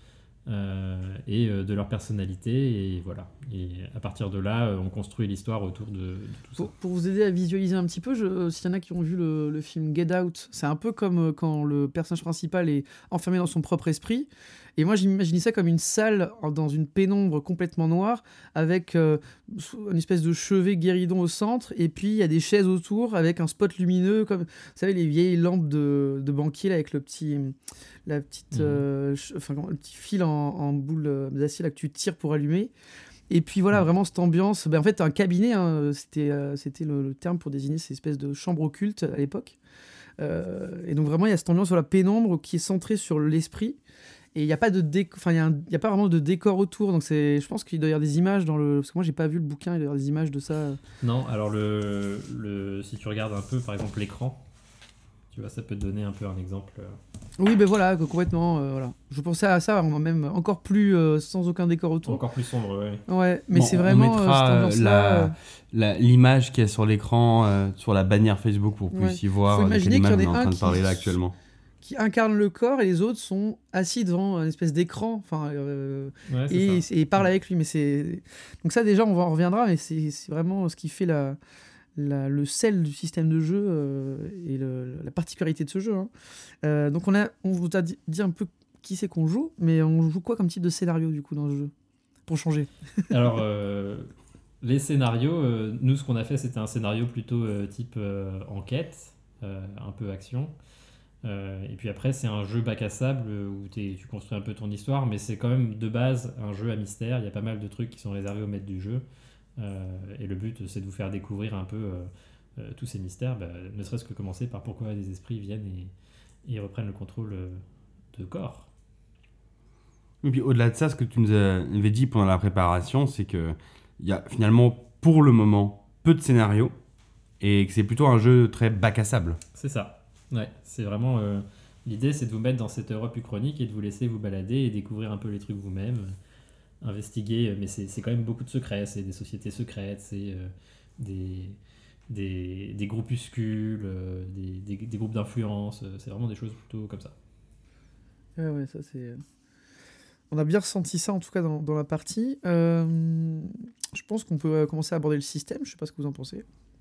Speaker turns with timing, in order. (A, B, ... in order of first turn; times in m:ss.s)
0:00.5-0:06.7 A
0:06.6-0:27.6 B
0:28.1-0:32.7 B
0:28.5-0:28.8 A
0:33.3-0:39.6 B
0:40.2-0:43.8 B
0:44.4-0:50.8 B
0:51.0-0:54.4 A
0:55.3-0:57.0 A
0:57.4-1:02.2 B
1:02.0-1:03.0 A
1:03.1-1:05.4 B
1:03.5-1:11.3 C
1:08.9-1:11.2 B
1:11.8-1:21.4 B
1:16.3-1:16.9 A
1:22.0-1:26.1 B
1:26.6-1:31.7 B
1:32.3-1:32.7 B
1:33.1-1:34.1 A
1:34.6-1:40.5 A
1:41.2-1:49.0 A
1:49.6-1:55.9 A
1:56.4-1:57.6 A
1:58.1-1:58.7 A
2:00.2-2:06.7 C
2:07.4-2:09.4 C
2:09.6-2:16.2 A
2:16.8-2:21.6 A
2:22.1-2:27.1 A
2:28.4-2:29.2 B
2:30.3-2:36.4 B